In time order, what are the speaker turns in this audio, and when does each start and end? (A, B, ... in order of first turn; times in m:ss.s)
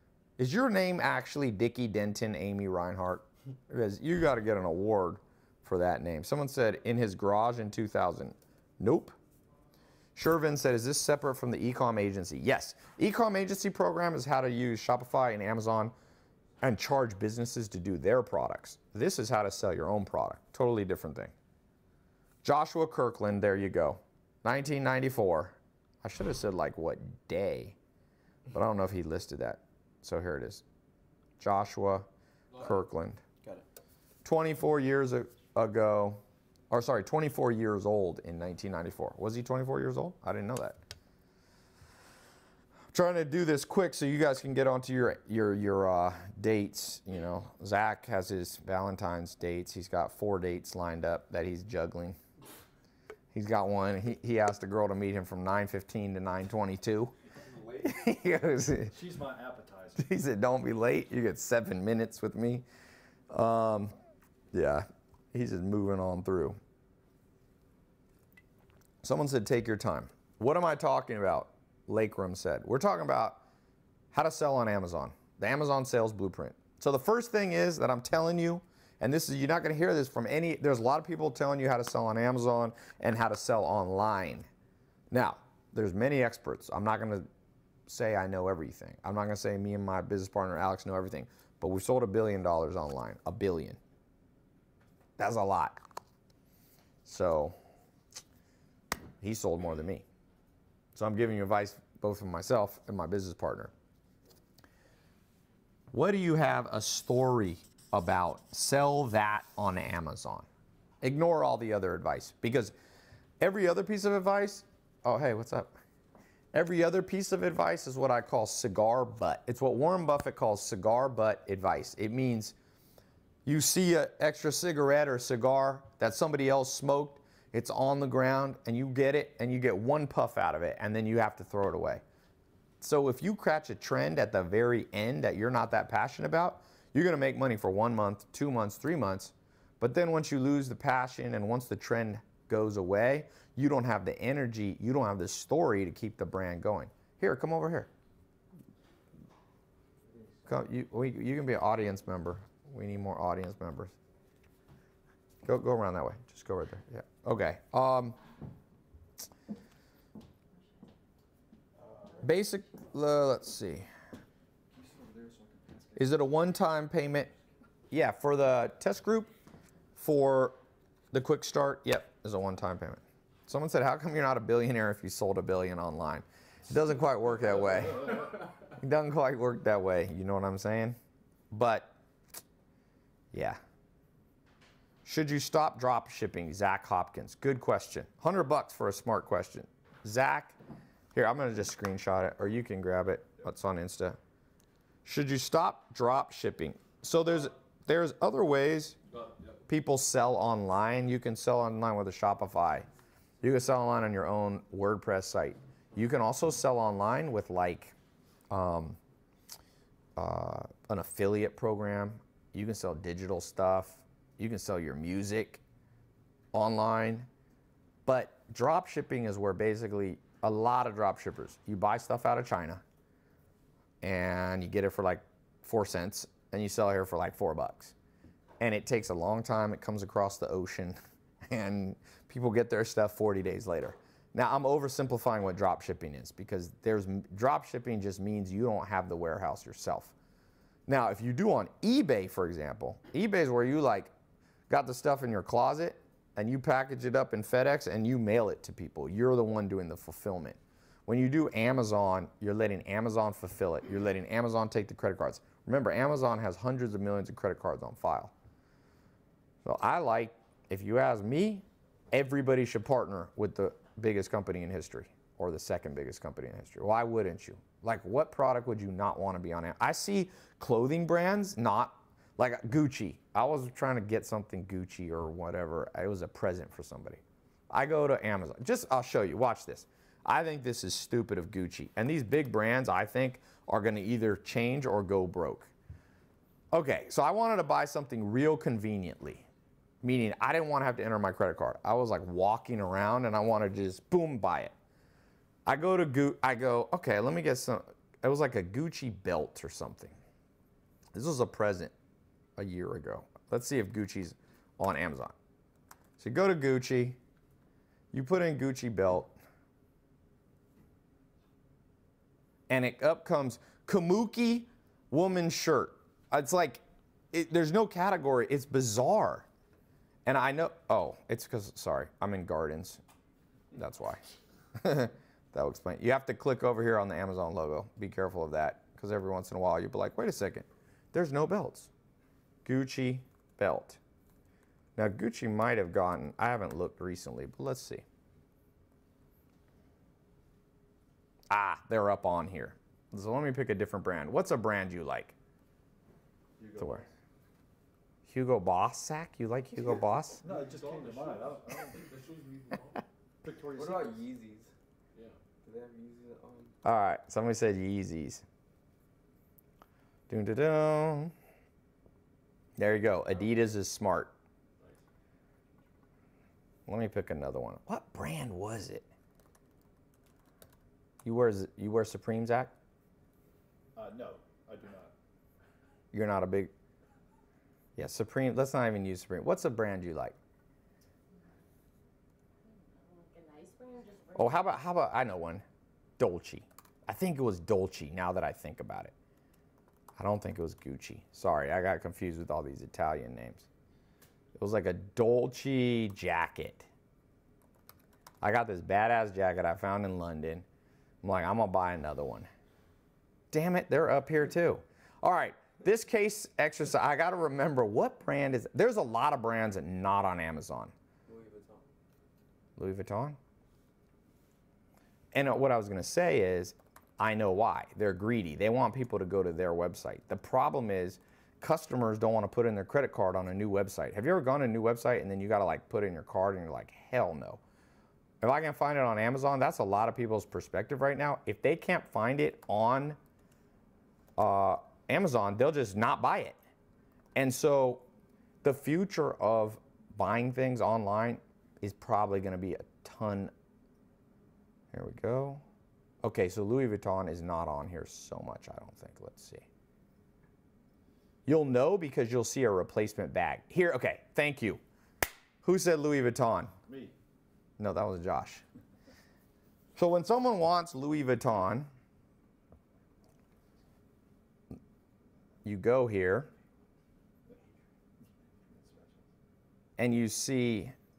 0:00.4-0:09.2 A
0:10.1-0:15.9 A
0:16.6-0:21.3 A
0:22.4-0:27.8 A
0:28.5-0:30.6 A
0:31.4-0:32.1 A
0:32.6-0:33.2 A
0:34.2-0:40.8 A
0:42.9-0:52.2 A
0:53.3-0:57.1 A
0:57.4-0:57.9 B
0:57.8-0:58.9 A
0:58.9-1:00.1 C
1:00.0-1:02.6 A
1:03.3-1:03.9 A
1:04.5-1:06.6 A
1:09.0-1:13.4 A
1:14.1-1:24.5 A
1:25.1-1:27.3 A
1:27.9-1:33.8 A
1:35.2-1:35.8 A
1:37.0-1:37.6 A
1:39.2-1:40.0 A
1:40.9-1:43.7 A
1:45.9-1:50.4 A
1:51.0-1:52.7 A
1:53.4-1:55.7 A
1:56.5-2:02.5 A
2:03.4-2:12.0 A
2:12.8-2:27.9 A
2:30.5-2:33.9 A
2:35.4-2:38.2 A
2:42.2-2:43.9 A
2:44.7-2:46.2 C
2:46.0-2:47.3 A
2:47.9-2:49.3 A
2:50.0-2:50.6 A
2:51.1-3:01.0 A
3:01.5-3:01.9 A
3:03.3-3:03.6 A
3:05.0-3:10.6 A
3:11.1-3:14.2 A
3:15.0-3:19.0 A
3:19.1-3:19.6 B
3:19.7-3:22.9 A
3:23.4-3:27.9 A
3:28.5-3:29.0 A
3:30.2-3:35.6 A
3:36.5-3:37.3 A
3:38.0-3:42.8 A
3:44.0-3:47.9 A
3:48.6-4:00.1 A
4:00.9-4:04.1 A
4:04.7-4:18.3 A
4:19.6-4:45.7 A
4:46.7-4:49.4 A
4:50.0-4:54.7 A
4:55.6-5:00.1 A
5:01.1-5:01.9 A
5:02.6-5:05.3 A
5:06.2-5:07.2 A
5:08.1-5:09.3 A
5:12.7-5:19.5 A
5:20.2-5:23.0 A
5:23.7-5:24.2 A
5:24.8-5:31.9 A
5:32.6-5:34.0 A
5:35.0-5:38.0 A
5:41.5-5:45.3 A
5:46.6-5:47.1 C
5:46.8-5:47.0 A
5:48.3-5:50.4 A
5:50.4-5:52.0 C
5:50.4-5:53.0 B
5:53.4-5:54.2 C
5:53.7-5:56.7 B
5:56.8-5:58.4 A
6:00.3-6:01.3 A
6:02.8-6:04.3 A
6:06.9-6:09.1 A
6:11.2-6:12.7 A
6:13.9-6:15.1 C
6:16.1-6:16.7 A
6:18.0-6:20.4 A
6:22.6-6:24.8 D
6:24.4-6:25.6 A
6:26.2-6:29.1 A
6:30.2-6:33.6 A
6:34.6-6:36.9 A
6:38.4-6:40.6 A
6:41.2-6:42.5 A
6:43.5-6:50.9 A
6:51.3-6:51.8 B
6:52.8-6:53.4 A
6:55.3-7:07.6 A
7:08.4-7:13.2 A
7:14.4-7:16.6 A
7:17.4-7:18.0 A
7:18.6-7:23.5 A
7:24.9-7:25.6 A
7:26.2-7:29.6 A
7:31.4-7:34.8 A
7:35.6-7:36.7 A
7:36.9-7:37.1 C
7:37.8-7:38.6 A
7:40.0-7:41.9 A
7:45.6-7:46.5 A
7:48.6-7:49.3 C
7:50.0-7:50.9 A